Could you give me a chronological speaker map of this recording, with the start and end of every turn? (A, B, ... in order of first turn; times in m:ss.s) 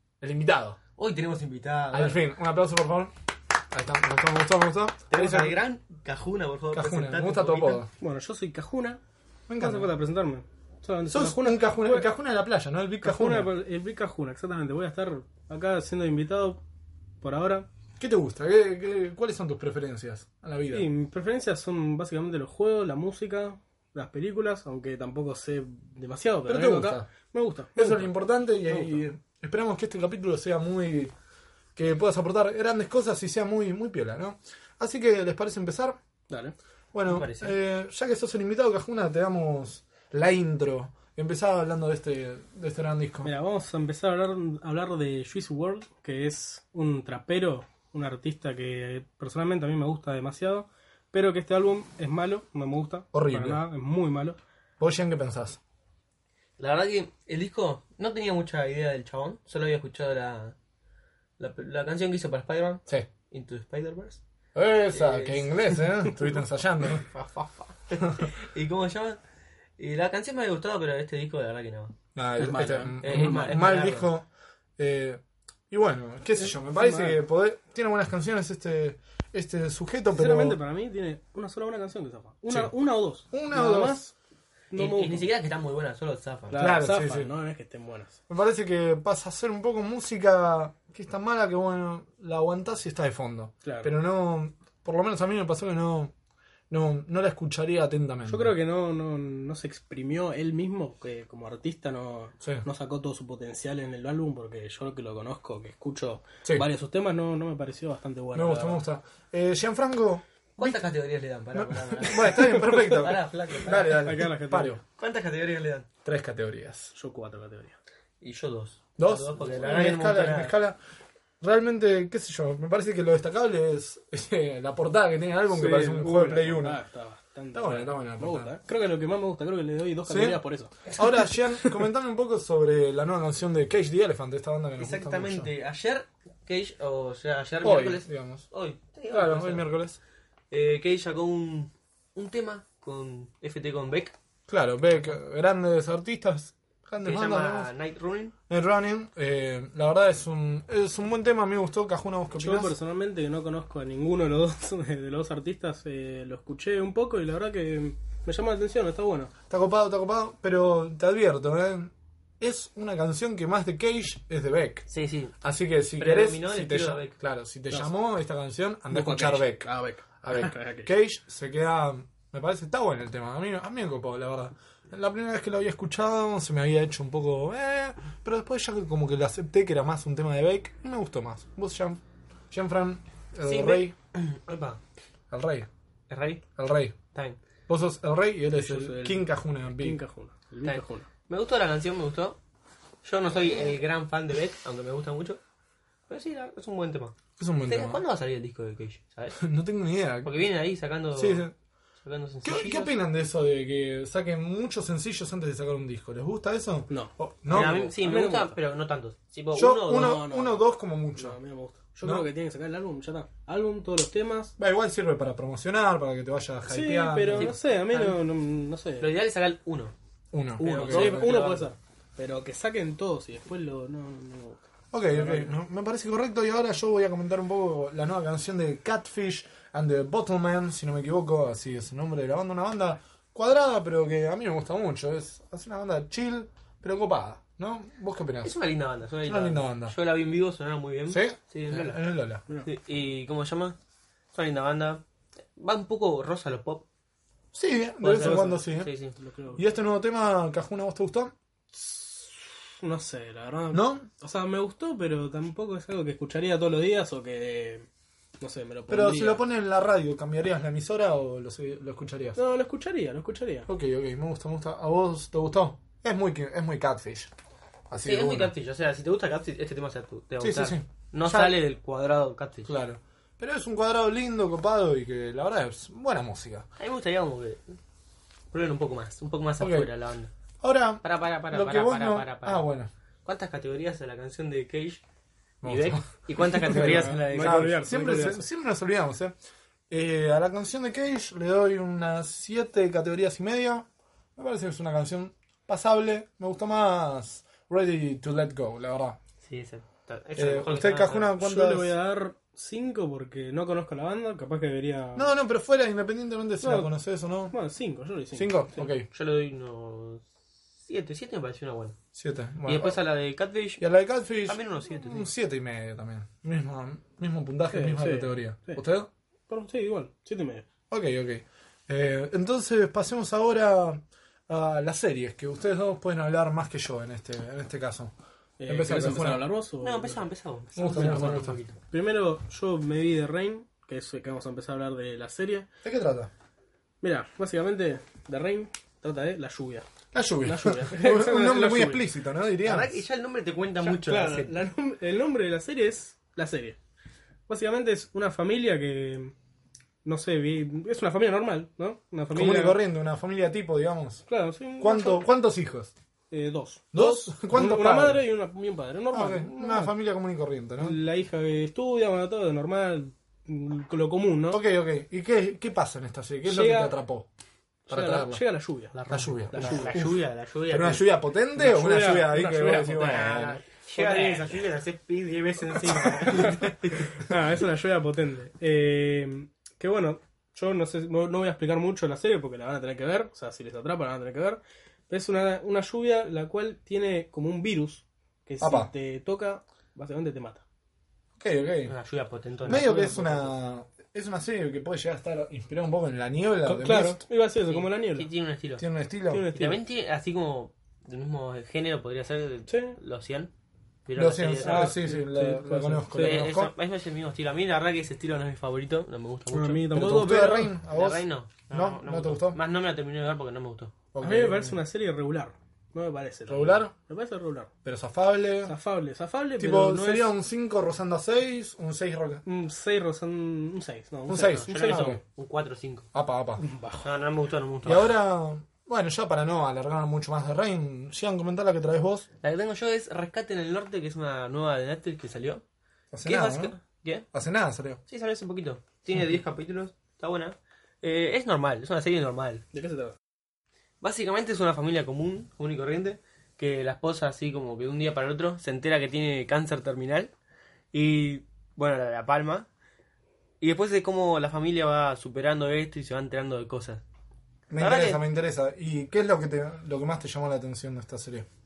0:00.2-0:00.8 A
0:01.0-0:02.2 B
0:01.9-0:03.1 A
0:03.7-0:05.6 A
0:05.1-0:07.8 B
0:06.7-0:07.9 A
0:08.0-0:09.0 C
0:09.5-0:09.9 A
0:09.6-0:12.1 C
0:11.1-0:13.5 A
0:13.0-0:16.6 C
0:17.2-0:17.7 C
0:18.0-0:20.9 A
0:20.7-0:28.1 C
0:26.5-0:27.1 A
0:27.8-0:31.1 A
0:28.7-0:29.0 C
0:31.8-0:36.0 A
0:36.3-0:36.6 C
0:36.9-0:43.3 A
0:37.1-0:37.6 B
0:43.2-0:54.4 C
0:53.1-0:53.6 A
0:54.8-0:55.6 A
0:56.6-1:00.6 B
1:01.4-1:04.2 B
1:04.6-1:07.1 A
1:04.9-1:05.6 B
1:07.1-1:09.2 B
1:09.8-1:14.1 B
1:12.2-1:14.3 A
1:12.4-1:13.5 C
1:14.8-1:20.6 A
1:16.4-1:17.2 C
1:20.1-1:24.1 C
1:23.3-1:24.0 A
1:24.7-1:25.3 C
1:24.8-1:26.7 B
1:26.5-1:28.2 C
1:26.6-1:27.3 A
1:28.3-1:36.1 A
1:33.6-1:33.9 C
1:36.7-1:38.5 A
1:38.3-1:48.8 C
1:48.3-1:50.9 A
1:50.6-1:54.0 B
1:51.5-1:54.8 A
1:54.0-1:54.8 C
1:55.0-1:55.9 B
1:56.0-1:56.9 A
1:57.0-1:57.8 C
1:58.2-2:00.6 B
1:59.0-2:00.8 A
2:01.4-2:06.8 A
2:05.5-2:10.9 C
2:07.5-2:08.5 A
2:10.1-2:15.5 A
2:14.8-2:19.7 B
2:17.6-2:18.4 A
2:19.1-2:20.0 A
2:20.5-2:24.2 B
2:24.5-2:27.7 A
2:27.0-2:28.3 B
2:28.5-2:32.8 A
2:32.3-2:39.3 C
2:39.5-2:44.9 A
2:44.9-2:45.3 B
2:45.4-2:49.7 A
2:46.0-2:47.1 B
2:48.9-2:50.9 C
2:50.2-3:04.0 A
3:03.4-3:04.8 B
3:05.3-3:05.7 A
3:06.1-3:06.4 B
3:06.6-3:07.0 A
3:07.1-3:07.4 B
3:07.7-3:10.0 A
3:08.5-3:11.1 C
3:10.6-3:12.4 B
3:13.0-3:15.4 B
3:16.1-3:17.2 B
3:17.4-3:18.0 A
3:17.7-3:19.4 B
3:19.4-3:20.4 A
3:20.2-3:21.5 B
3:21.2-3:21.5 A
3:22.0-3:23.0 B
3:22.4-3:27.9 A
3:26.9-3:28.6 C
3:27.5-3:30.2 B
3:29.5-3:31.4 A
3:29.8-3:34.6 C
3:32.0-3:32.3 A
3:34.6-3:37.6 A
3:36.7-3:39.2 C
3:37.4-3:38.2 B
3:39.0-3:39.9 B
3:40.3-3:41.4 A
3:40.6-3:41.7 B
3:40.7-3:45.6 C
3:44.9-3:58.6 A
3:58.4-4:02.0 B
3:59.2-4:00.0 A
4:01.1-4:02.4 A
4:02.6-4:03.8 B
4:04.3-4:05.0 B
4:05.6-4:06.9 B
4:07.5-4:08.9 A
4:08.0-4:09.2 B
4:08.1-4:08.6 C
4:09.2-4:09.6 C
4:09.6-4:11.3 A
4:12.8-4:17.9 C
4:13.7-4:14.1 A
4:18.4-4:19.4 C
4:18.9-4:22.4 A
4:22.4-4:23.7 C
4:23.7-4:27.3 A
4:27.9-4:28.5 A
4:28.0-4:32.8 B
4:30.4-4:31.6 A
4:32.7-4:36.7 A
4:36.8-4:37.8 B
4:38.5-4:40.3 B
4:39.6-4:39.9 A
4:40.6-4:42.9 A
4:41.0-4:42.6 B
4:43.2-4:45.0 B
4:45.6-4:49.4 A
4:45.6-4:47.8 B
4:46.5-4:48.5 C
4:49.9-4:59.2 A
4:59.4-5:01.3 B
5:00.4-5:01.9 A
5:01.4-5:05.3 C
5:05.2-5:07.5 A
5:06.6-5:06.9 C
5:07.5-5:08.9 C
5:08.4-5:09.1 A
5:09.1-5:10.2 B
5:10.9-5:12.0 B
5:12.1-5:13.0 A
5:12.6-5:13.8 B
5:13.8-5:19.1 A
5:14.5-5:15.3 B
5:17.7-5:18.8 C
5:19.5-5:20.6 C
5:20.9-5:28.1 A
5:28.6-5:30.2 C
5:28.7-5:29.5 A
5:29.8-5:31.8 B
5:30.8-5:31.6 A
5:31.0-5:35.7 C
5:35.8-5:36.3 A
5:37.0-5:39.9 C
5:40.1-5:43.0 A
5:40.4-5:42.0 C
5:42.6-5:44.6 B
5:43.8-5:46.8 C
5:47.5-5:49.3 C
5:50.0-5:52.8 C
5:52.3-5:54.2 A
5:54.3-5:55.3 C
5:54.8-5:55.9 A
5:56.3-5:59.9 C
5:56.9-5:58.2 A
5:59.1-6:01.0 A
6:00.8-6:04.6 C
6:04.5-6:07.3 A
6:06.4-6:07.0 C
6:07.9-6:08.4 A
6:07.9-6:09.0 C
6:08.9-6:11.1 B
6:09.1-6:13.6 A
6:09.5-6:10.0 C
6:11.6-6:13.3 C
6:13.0-6:17.1 B
6:14.0-6:14.4 C
6:16.2-6:30.6 C
6:28.6-6:28.9 A
6:31.4-6:31.9 A
6:31.8-6:33.5 B
6:32.7-6:37.2 A
6:32.8-6:33.2 C
6:36.7-6:38.3 C
6:37.7-6:38.8 B
6:38.8-6:39.5 A
6:39.3-6:39.8 C
6:39.5-6:43.5 B
6:42.7-6:43.0 C
6:44.1-6:45.0 B
6:44.2-6:46.7 A
6:44.6-6:46.4 C
6:46.2-6:50.0 B
6:49.5-6:50.7 C
6:49.9-6:52.6 A
6:50.9-6:53.9 B
6:54.1-6:54.8 A
6:54.2-6:57.7 C
6:56.5-6:56.9 A
6:57.8-6:58.8 A
6:58.6-7:00.4 C
6:59.6-7:02.4 A
7:02.5-7:05.2 C
7:04.3-7:05.2 A
7:04.3-7:06.1 B
7:06.1-7:06.6 A
7:06.6-7:07.1 C
7:07.0-7:08.1 B
7:07.8-7:12.3 A
7:12.4-7:15.6 B
7:16.1-7:16.8 A
7:16.2-7:17.3 B
7:17.3-7:18.0 A
7:18.1-7:22.6 B
7:22.7-7:23.2 C
7:24.0-7:30.3 B
7:30.9-7:32.7 B
7:33.6-7:37.0 B
7:37.7-7:41.5 A
7:37.8-7:38.2 B